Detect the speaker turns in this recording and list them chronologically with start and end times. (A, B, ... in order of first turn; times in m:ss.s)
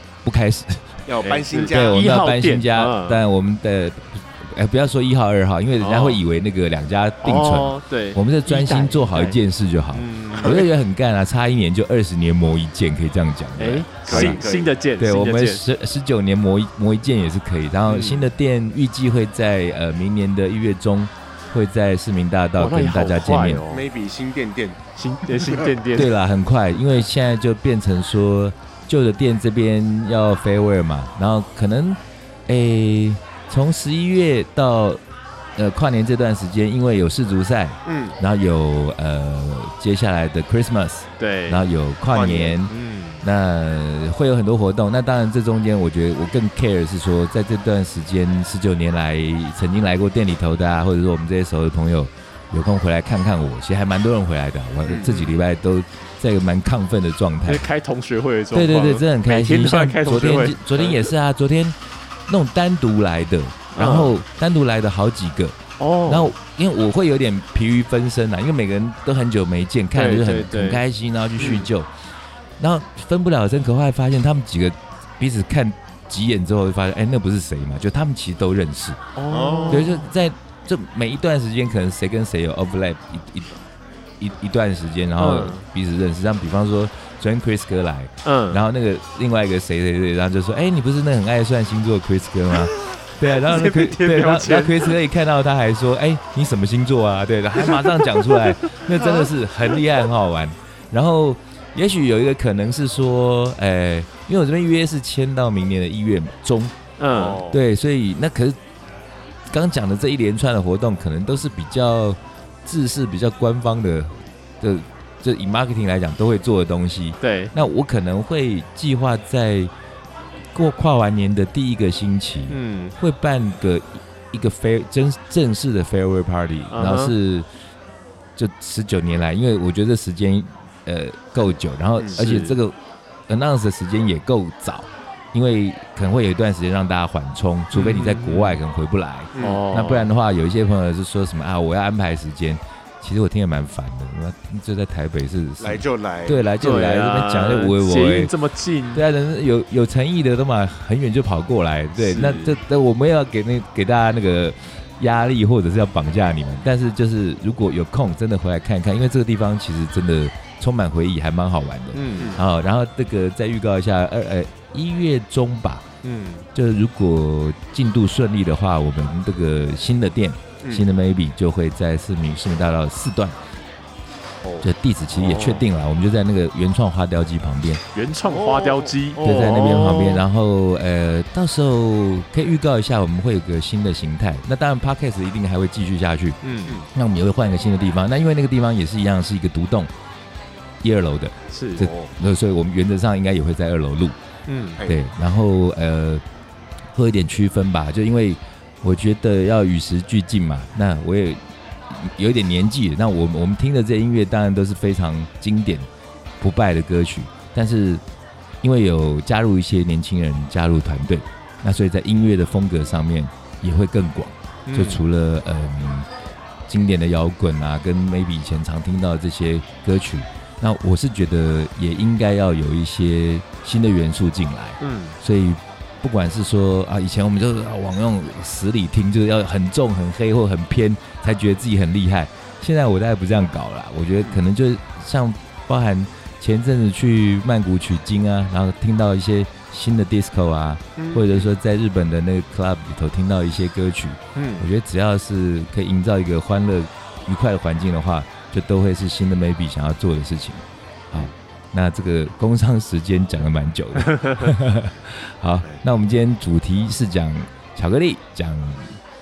0:00.2-0:01.0 A
0:01.0-0:02.0 B
0:01.2-0:03.2 C
0:01.7-0:14.4 A
0:05.8-0:06.2 C
0:07.2-0:09.4 C
0:09.9-0:10.6 C
0:13.6-0:15.6 C
0:14.0-0:14.7 B
0:15.0-0:23.6 A
0:17.9-0:18.3 C
0:22.6-0:23.9 C
0:23.7-0:24.8 B
0:25.0-0:26.1 C
0:25.3-0:25.6 B
0:25.9-0:35.0 A
0:35.6-0:57.7 A
0:37.8-0:38.2 B
0:41.2-0:41.6 C
0:42.1-0:42.6 B
0:42.7-0:43.2 C
0:54.8-0:55.2 B
0:57.4-1:01.1 C
0:58.5-1:11.9 A
1:03.8-1:04.2 C
1:05.8-1:06.3 C
1:09.9-1:10.8 C
1:11.4-1:11.6 C
1:12.6-1:19.0 A
1:19.2-1:20.1 C
1:19.3-1:20.0 B
1:19.7-1:23.5 A
1:24.2-1:46.8 A
1:25.2-1:25.6 C
1:28.2-1:28.6 C
1:32.5-1:35.0 C
1:37.6-1:39.3 C
1:47.0-1:47.4 C
1:47.1-1:47.6 B
1:47.5-1:48.6 A
1:49.5-1:59.7 A
1:57.2-1:57.5 C
2:00.5-2:07.5 A
2:02.5-2:03.0 C
2:06.7-2:07.1 C
2:08.4-2:12.8 A
2:12.2-2:12.6 C
2:13.3-2:28.3 A
2:17.7-2:18.6 C
2:19.3-2:19.6 B
2:19.4-2:20.1 C
2:25.6-2:26.4 B
2:26.6-2:29.0 C
2:28.9-2:45.8 A
2:32.0-2:32.6 C
2:41.9-2:42.4 C
2:42.2-2:42.4 B
2:46.0-2:46.5 C
2:46.5-2:53.4 A
2:54.5-2:55.6 C
2:54.6-2:57.8 A
2:57.9-3:00.2 C
2:58.2-2:59.5 B
2:59.2-3:06.4 A
3:06.4-3:06.8 C
3:06.9-3:09.9 A
3:10.8-3:14.2 A
3:11.5-3:11.9 C
3:11.8-3:12.1 B
3:14.5-3:14.8 C
3:14.8-3:16.2 A
3:16.9-3:25.9 A
3:26.4-3:28.0 A
3:28.6-3:36.1 A
3:34.7-3:35.0 C
3:36.7-4:19.0 A
3:44.8-3:45.2 C
4:01.0-4:01.5 B
4:04.4-4:04.6 C
4:14.0-4:14.5 C